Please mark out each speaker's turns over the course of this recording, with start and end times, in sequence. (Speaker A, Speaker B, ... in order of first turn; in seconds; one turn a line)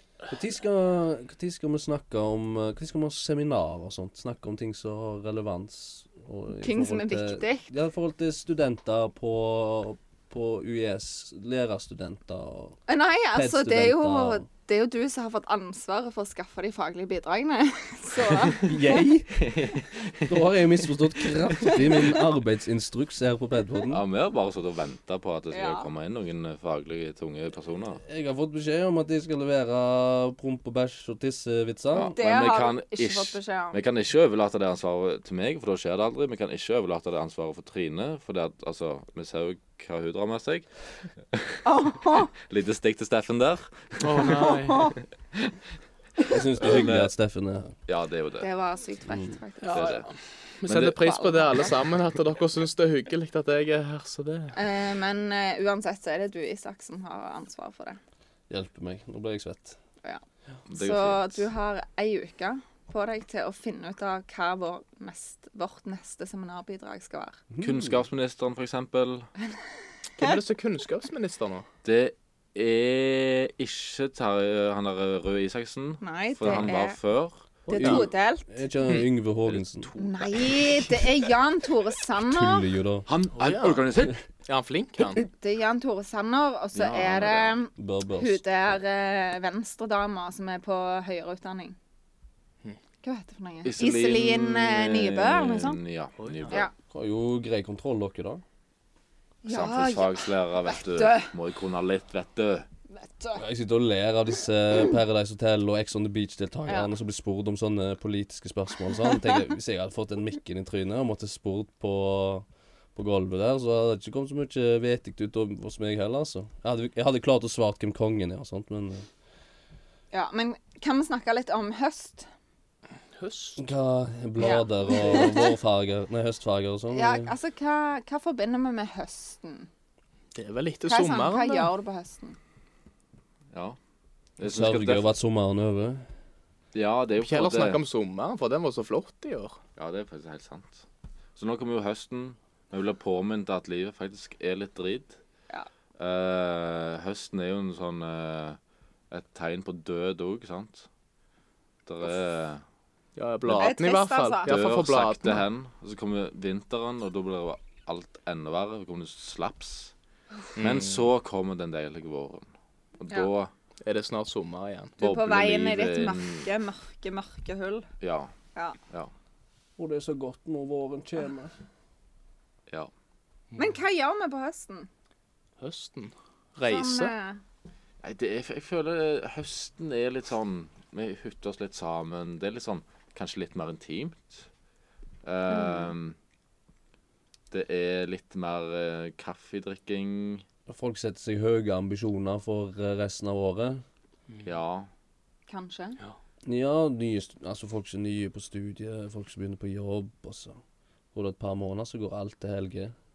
Speaker A: 0.3-12.8
Speaker B: 6.6-7.7
Speaker B: 12.9-18.7
Speaker A: 13.3-14.4
Speaker A: 18.6-19.5
Speaker C: 19.4-20.6
Speaker A: 20.3-24.0
Speaker C: 23.9-28.0
Speaker B: 25.5-25.9
Speaker A: 28.0-32.2
Speaker C: 31.9-40.7
Speaker B: 32.1-33.8
Speaker C: 41.3-44.7
Speaker B: 41.6-42.3
Speaker D: 44.0-45.0
Speaker B: 44.6-44.9
Speaker C: 45.3-45.6
Speaker A: 46.3-47.7
Speaker C: 46.6-47.1
Speaker C: 47.9-48.5
Speaker B: 48.4-50.0
Speaker D: 49.6-54.5
Speaker C: 49.7-50.1
Speaker C: 50.7-51.0
Speaker B: 51.0-51.7
Speaker B: 54.5-58.0
Speaker A: 58.5-59.8
Speaker B: 60.0-67.4
Speaker C: 60.7-61.4
Speaker A: 67.5-67.9
Speaker C: 67.6-69.3
Speaker D: 70.2-71.7
Speaker C: 71.8-77.5
Speaker B: 76.0-77.0
Speaker A: 77.7-79.9
Speaker B: 77.7-78.6
Speaker D: 77.7-78.0
Speaker C: 79.4-81.1
Speaker B: 80.0-82.6
Speaker A: 82.1-83.1
Speaker C: 83.0-84.2
Speaker D: 83.4-83.8
Speaker D: 84.5-85.2
Speaker B: 85.2-91.8
Speaker C: 86.7-87.6
Speaker A: 87.8-88.4
Speaker B: 93.0-95.8
Speaker C: 93.6-96.7
Speaker D: 96.2-96.6
Speaker A: 96.9-98.4
Speaker B: 99.4-101.3
Speaker C: 99.5-102.7
Speaker B: 102.9-103.4
Speaker A: 103.4-119.0
Speaker B: 120.1-122.3
Speaker D: 123.2-123.6
Speaker A: 123.6-127.3
Speaker B: 124.4-125.5
Speaker B: 126.9-129.7
Speaker D: 130.3-131.7
Speaker B: 130.9-132.4
Speaker C: 133.5-133.8
Speaker C: 134.4-135.1
Speaker A: 134.4-136.0
Speaker C: 136.7-137.8
Speaker D: 137.2-139.6
Speaker C: 139.8-140.8
Speaker C: 141.3-145.2
Speaker C: 146.0-148.6
Speaker C: 149.1-150.9
Speaker C: 151.8-152.6
Speaker D: 153.2-155.4
Speaker B: 153.5-154.6
Speaker C: 154.4-159.9
Speaker D: 160.6-161.0
Speaker C: 160.6-163.5
Speaker D: 163.8-164.9
Speaker B: 165.0-167.9
Speaker C: 165.0-166.5
Speaker C: 168.0-168.3
Speaker A: 169.8-171.5
Speaker B: 173.6-174.9
Speaker D: 175.6-177.1
Speaker B: 176.6-177.4
Speaker C: 178.0-184.5
Speaker C: 185.2-186.2
Speaker B: 185.5-185.9
Speaker C: 187.5-190.4
Speaker A: 190.7-193.8
Speaker C: 194.4-194.9
Speaker B: 195.5-196.0
Speaker A: 196.4-200.6
Speaker A: 201.1-202.9